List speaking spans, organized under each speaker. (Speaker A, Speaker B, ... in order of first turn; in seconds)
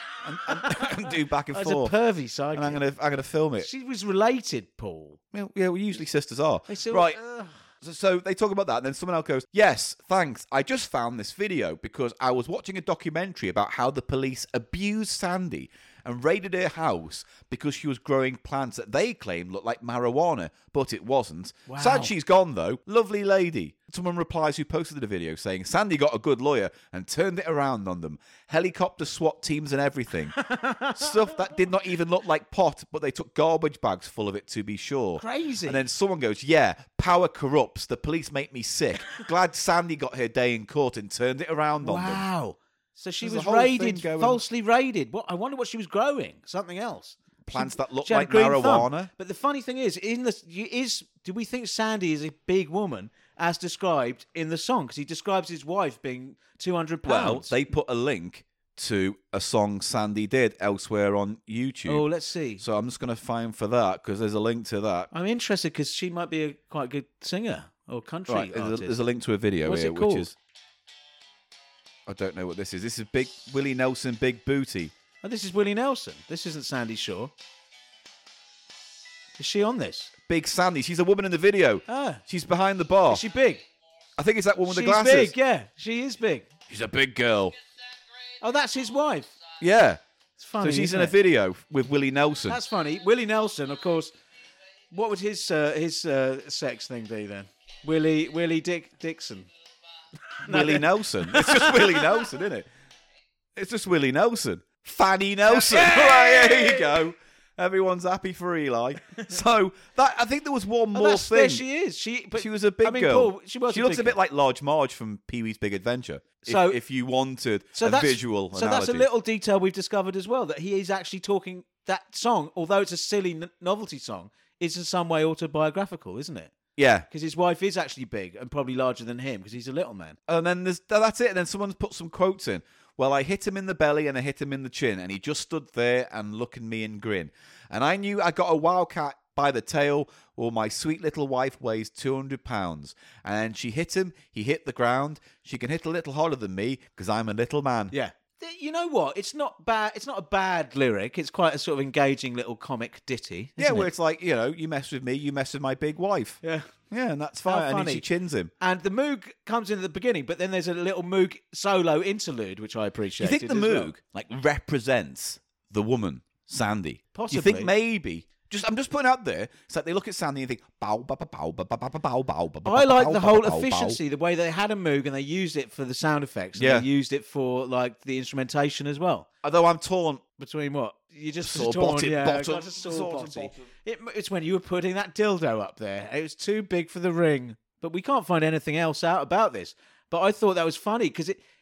Speaker A: 0.2-1.9, 2.5-3.7, 5.3-7.2, 7.8-30.4, 30.9-42.2, 43.2-44.4, 47.4-49.1, 57.0-62.0, 62.6-65.1, 68.3-70.3, 72.1-74.9, 80.3-83.2, 84.2-85.3, 86.7-87.5, 89.6-90.0, 90.6-92.6, 100.4-102.7, 103.5-111.7, 112.3-119.1, 126.8-127.1, 130.3-147.9, 153.6-156.4, 156.9-158.5, 163.2-174.0, 176.6-176.9, 179.4-180.2, 181.4-183.7
Speaker B: 0.4-2.8, 3.6-5.2, 6.7-7.5, 21.7-22.1, 30.4-31.3, 35.2-35.8, 41.8-57.6, 61.9-62.6, 65.1-68.9, 69.6-70.3, 75.2-77.3, 79.4-80.1, 81.9-82.2, 83.1-83.6, 84.6-86.5, 88.4-89.3, 90.4-91.2, 92.5-94.1, 94.9-99.5, 100.4-102.3, 105.5-107.0, 110.9-114.2, 116.4-116.8, 117.7-126.5, 127.1-130.2, 147.9-153.9, 156.4-156.7, 157.5-158.1, 158.6-163.9, 167.1-167.7, 172.6-179.3, 180.4-191.4